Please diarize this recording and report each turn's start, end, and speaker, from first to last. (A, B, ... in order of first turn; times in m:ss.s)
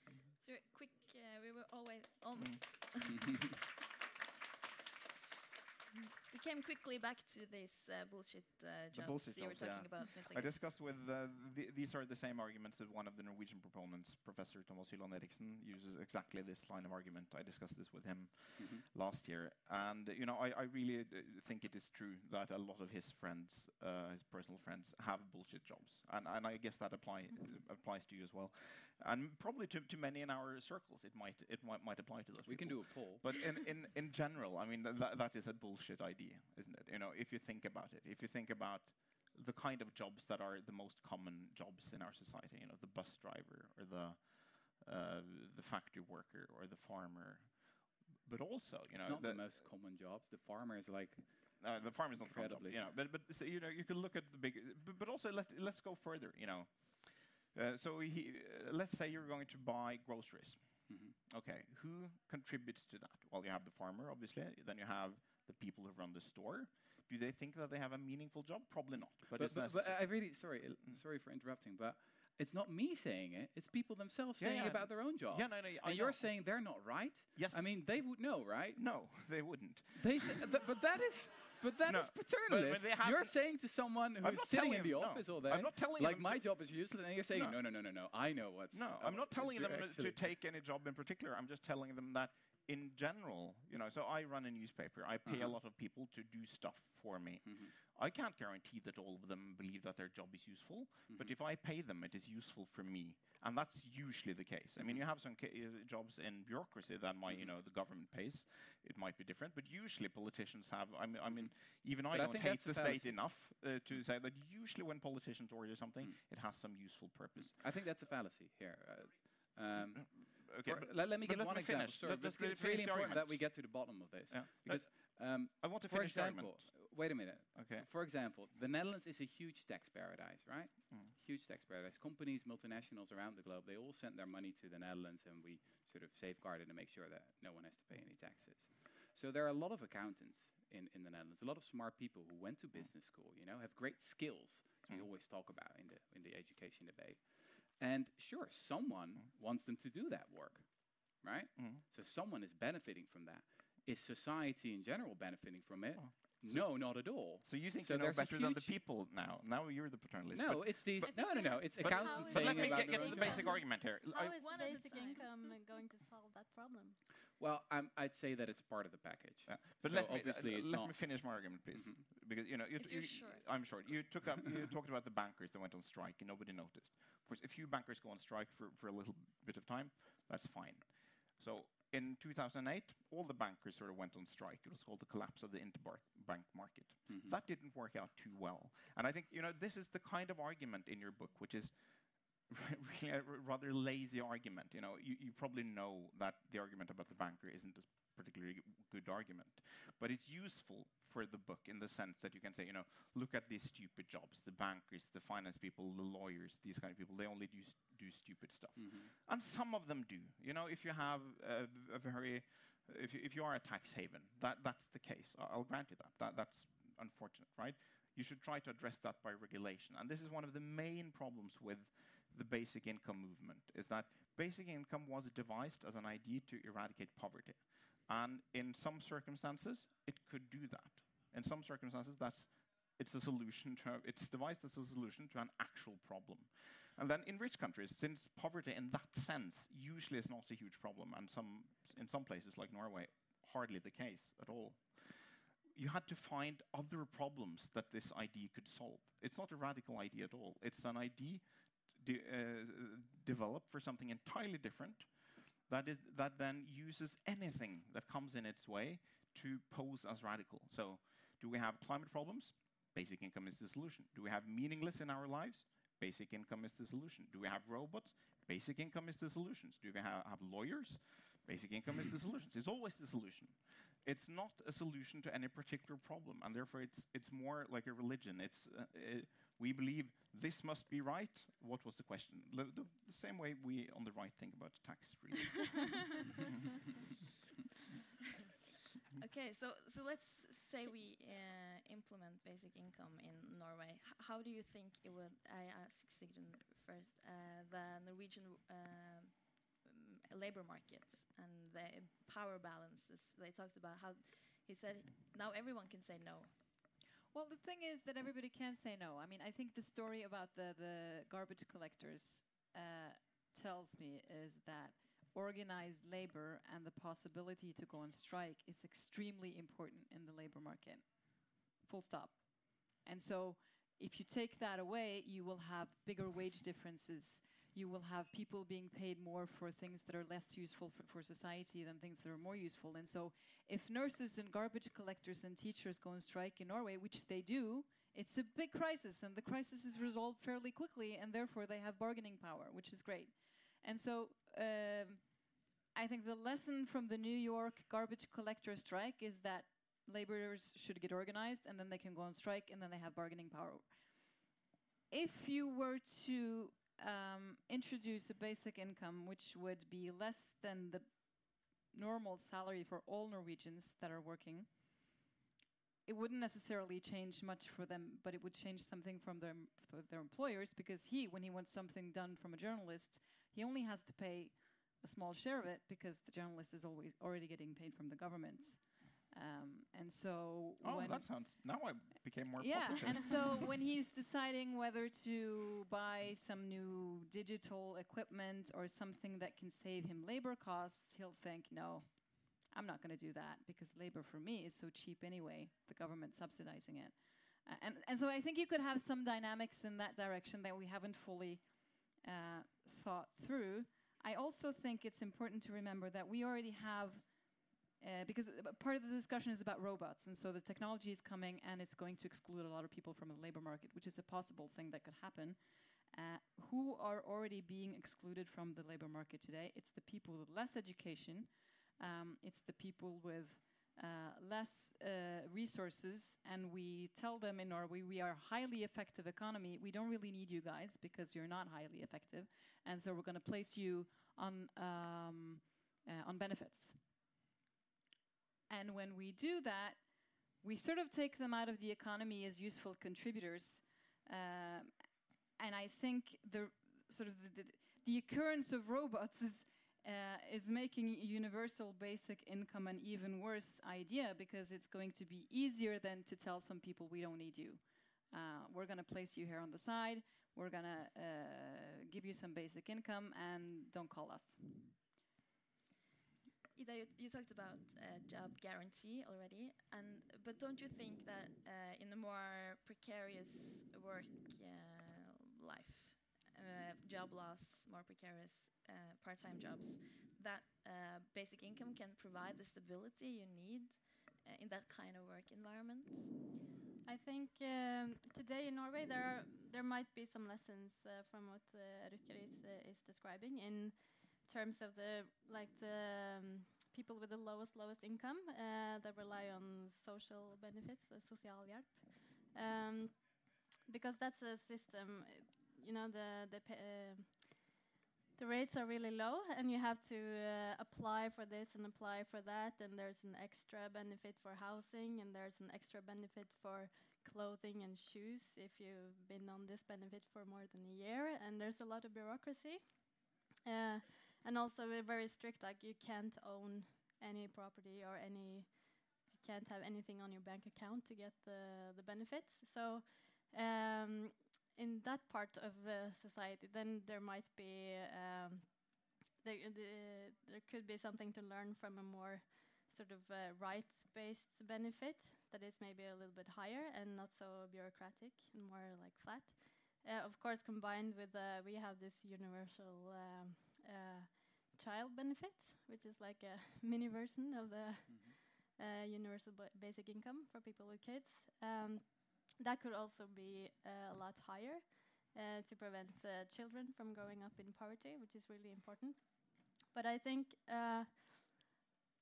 0:00.4-0:03.3 A
0:02.4-0:02.6 B
0:03.1-0:03.5 C
0:06.3-0:10.8 A
0:08.9-0:49.5 B
0:18.6-0:18.8 C
0:32.4-0:33.3 C
0:48.9-0:52.8 C
0:51.6-1:11.0 B
1:00.9-1:01.1 C
1:09.3-1:30.3 C
1:14.4-1:16.5 B
1:17.3-1:18.2 B
1:18.7-1:20.5 B
1:21.8-1:23.5 B
1:24.2-1:26.7 B
1:27.3-1:27.6 B
1:28.7-1:57.6 B
1:35.2-1:35.6 C
1:37.4-1:37.7 C
1:41.1-1:41.3 C
1:44.8-1:45.0 C
1:51.3-1:53.4 C
1:57.4-2:38.8 C
1:59.9-2:06.9 B
2:07.5-2:07.9 B
2:31.6-2:31.8 B
2:36.0-2:44.3 B
2:40.3-2:43.5 C
2:41.0-2:47.0 D
2:42.3-2:45.6 A
2:47.4-2:52.0 C
2:49.4-4:46.2 B
2:52.8-2:53.9 A
3:07.1-3:07.4 C
3:28.8-3:29.1 C
4:49.1-5:06.5 A
5:07.3-5:45.4 E
5:45.9-5:53.9 E
5:55.1-6:04.8 E
6:06.0-6:21.3 E
6:20.8-6:23.6 B
6:22.6-7:17.0 E
7:18.7-7:20.0 E
7:20.6-7:24.9 E
7:25.6-7:44.9 E
7:46.7-8:06.3 A
8:07.0-8:27.8 D
8:28.4-9:31.6 D
9:18.1-9:18.4 C